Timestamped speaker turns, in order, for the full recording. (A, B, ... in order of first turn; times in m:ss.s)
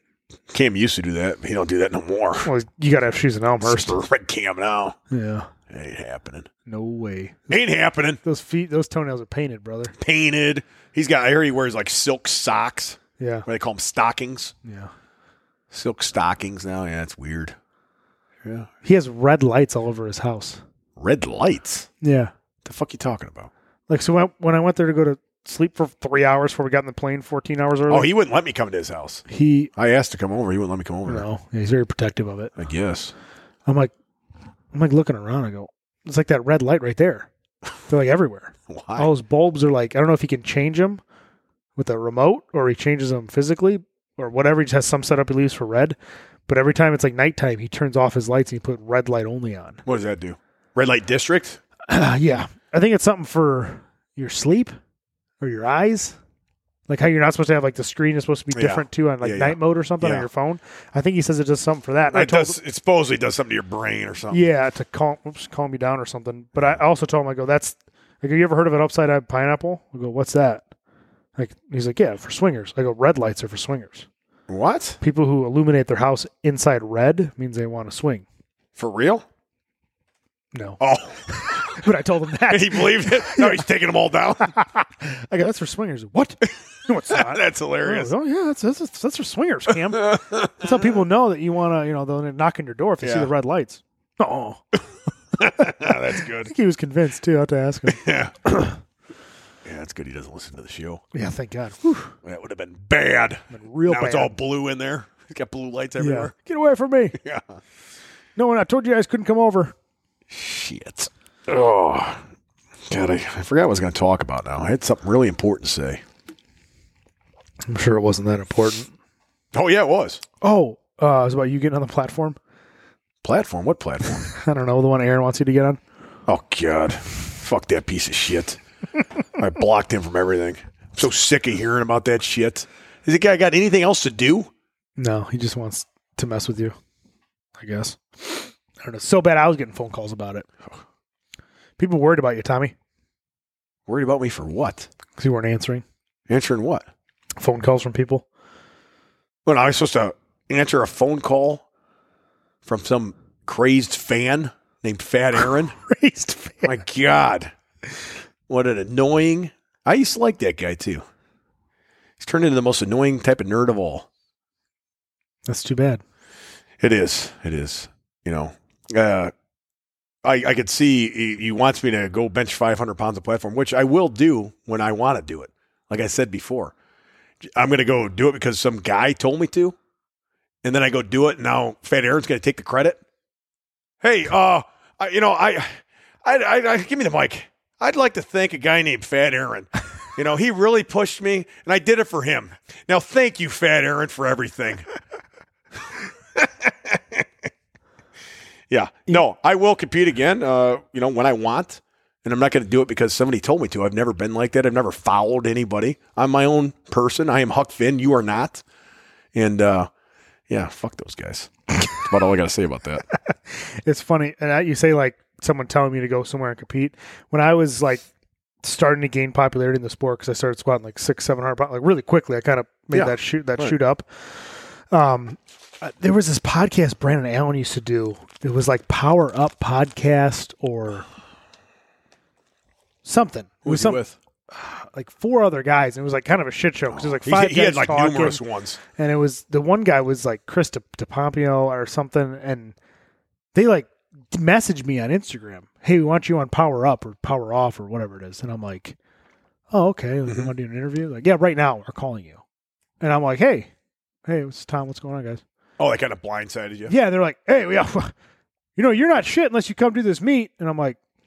0:00.5-0:02.5 A
0:02.4-0:04.0 B
0:03.6-0:05.0 A
0:05.1-0:05.5 B
0:05.7-0:06.5 A
0:06.6-0:07.6 B
0:07.5-0:08.2 A
0:08.2-0:09.9 B
0:10.0-0:14.5 A
0:13.2-0:13.4 B
0:14.6-0:14.9 B
0:15.7-0:17.6 A
0:18.4-0:18.7 A
0:18.8-0:20.6 B
0:21.0-0:21.9 A
0:22.0-0:22.3 B
0:22.6-0:23.5 A
0:23.9-0:28.1 B
0:27.9-0:31.2 A
0:29.3-0:29.7 B
0:31.0-0:32.5 B
0:32.6-0:33.1 A
0:33.6-0:33.9 B
0:34.7-0:37.3 B
0:37.9-0:41.0 B
0:38.7-0:39.1 A
0:41.8-0:49.8 B
0:49.8-0:51.6 A
0:51.9-0:54.8 B
0:55.4-0:56.2 B
0:56.9-1:02.6 B
0:58.5-1:00.3 A
1:02.1-1:04.4 A
1:04.3-1:10.6 B
1:11.4-1:14.1 B
1:14.5-1:15.0 A
1:15.0-1:18.2 B
1:18.8-1:19.2 A
1:20.5-1:23.6 B
1:20.8-1:21.8 A
1:22.5-1:24.6 A
1:24.4-1:34.6 B
1:27.1-1:28.1 A
1:29.9-1:30.7 A
1:33.0-1:33.3 A
1:35.4-1:36.5 A
1:35.7-1:38.8 B
1:37.9-1:38.3 A
1:39.6-1:41.0 A
1:41.1-1:42.1 B
1:42.2-1:46.3 A
1:43.5-1:44.3 B
1:46.0-1:47.2 B
1:47.2-1:47.6 A
1:48.4-1:49.7 B
1:50.3-1:52.2 A
1:52.9-1:56.0 A
1:57.7-1:58.9 B
1:59.5-2:00.2 A
2:00.4-2:02.4 B
2:03.2-2:04.3 A
2:04.2-2:05.8 B
2:06.3-2:08.6 A
2:09.4-2:14.5 A
2:15.0-2:16.7 B
2:17.6-2:20.5 B
2:21.8-2:22.7 B
2:23.9-2:24.9 A
2:25.2-2:25.8 B
2:26.3-2:26.9 A
2:27.4-2:28.2 B
2:29.4-2:31.6 A
2:32.6-2:35.7 A
2:35.4-2:36.8 B
2:36.6-2:37.5 A
2:38.5-2:41.0 A
2:42.2-2:44.0 A
2:45.4-2:46.0 B
2:46.8-2:49.3 A
2:50.2-2:56.7 A
2:57.4-2:59.8 A
3:00.6-3:03.0 A
3:04.0-3:14.9 A
3:16.3-3:17.2 A
3:18.7-3:28.6 A
3:29.3-3:29.9 A
3:30.5-3:33.0 A
3:33.3-3:38.0 B
3:38.6-3:51.0 B
3:42.9-3:43.8 A
3:53.0-3:58.4 B
3:53.6-3:54.1 A
3:56.9-3:58.8 A
3:59.0-4:02.7 B
4:03.5-4:09.0 B
4:09.7-4:12.4 B
4:13.0-4:13.7 B
4:14.2-4:15.4 B
4:15.8-4:16.9 A
4:16.9-4:18.1 B
4:18.8-4:21.0 B